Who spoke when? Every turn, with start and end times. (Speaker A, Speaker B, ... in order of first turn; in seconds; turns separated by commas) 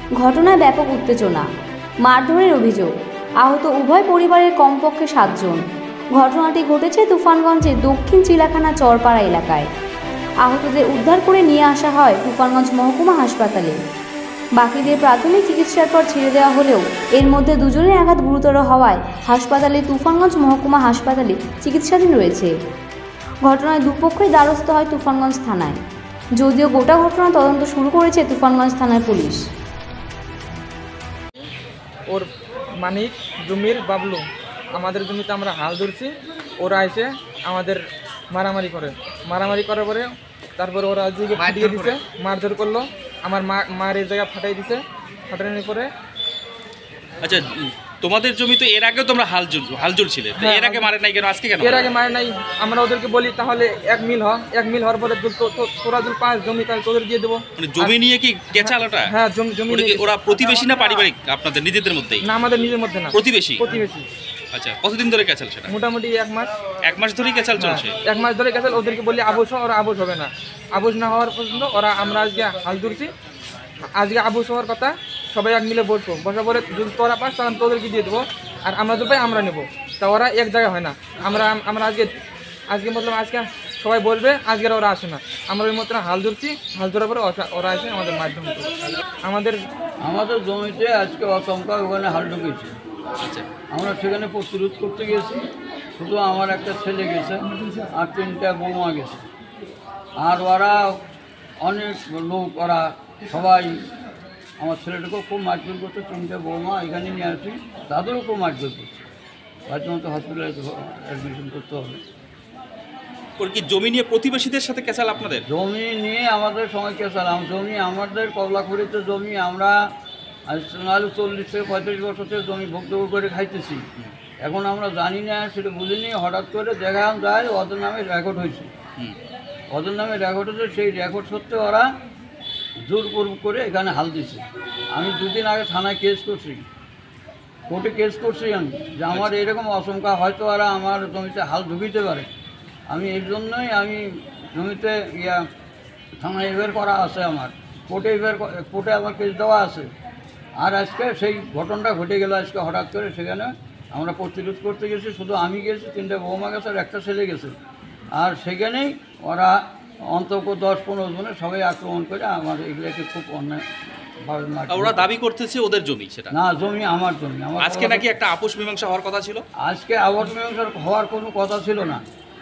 Speaker A: 0.2-1.5, Speaker A: 2.0-5.6, Speaker A: 6.1-9.7, Speaker A: 10.4-13.8, Speaker A: 14.6-22.5, Speaker A: 23.4-25.8, Speaker A: 26.4-29.5, Speaker B: 32.8-34.2, Speaker B: 34.8-45.9, Speaker C: 41.4-41.9, Speaker C: 47.2-51.9, Speaker B: 50.4-50.9, Speaker B: 51.6-58.0, Speaker C: 57.6-59.1, Speaker B: 58.6-60.1, Speaker C: 59.7-62.2, Speaker B: 62.2-64.1, Speaker C: 63.1-63.6, Speaker C: 64.5-65.7, Speaker B: 65.7-66.5, Speaker C: 66.8-67.9, Speaker B: 67.6-73.1, Speaker B: 73.9-82.1, Speaker B: 82.7-88.7, Speaker B: 89.2-89.6, Speaker D: 90.0-92.7, Speaker D: 93.7-95.4, Speaker D: 96.0-97.4, Speaker D: 97.9-99.2, Speaker D: 100.2-100.8, Speaker D: 101.6-103.7, Speaker D: 104.6-109.0, Speaker D: 109.7-112.0, Speaker C: 113.4-115.4, Speaker D: 115.4-119.8, Speaker D: 120.5-123.8, Speaker D: 124.4-128.7, Speaker D: 129.7-131.9, Speaker D: 132.8-134.4, Speaker D: 134.9-136.6, Speaker D: 137.7-142.3, Speaker D: 142.9-145.4, Speaker D: 146.2-149.9, Speaker D: 150.6-157.5, Speaker D: 158.2-159.6, Speaker D: 160.1-163.6, Speaker D: 164.2-165.1, Speaker C: 164.7-166.3, Speaker D: 166.3-168.1, Speaker C: 167.6-169.4, Speaker D: 169.6-172.0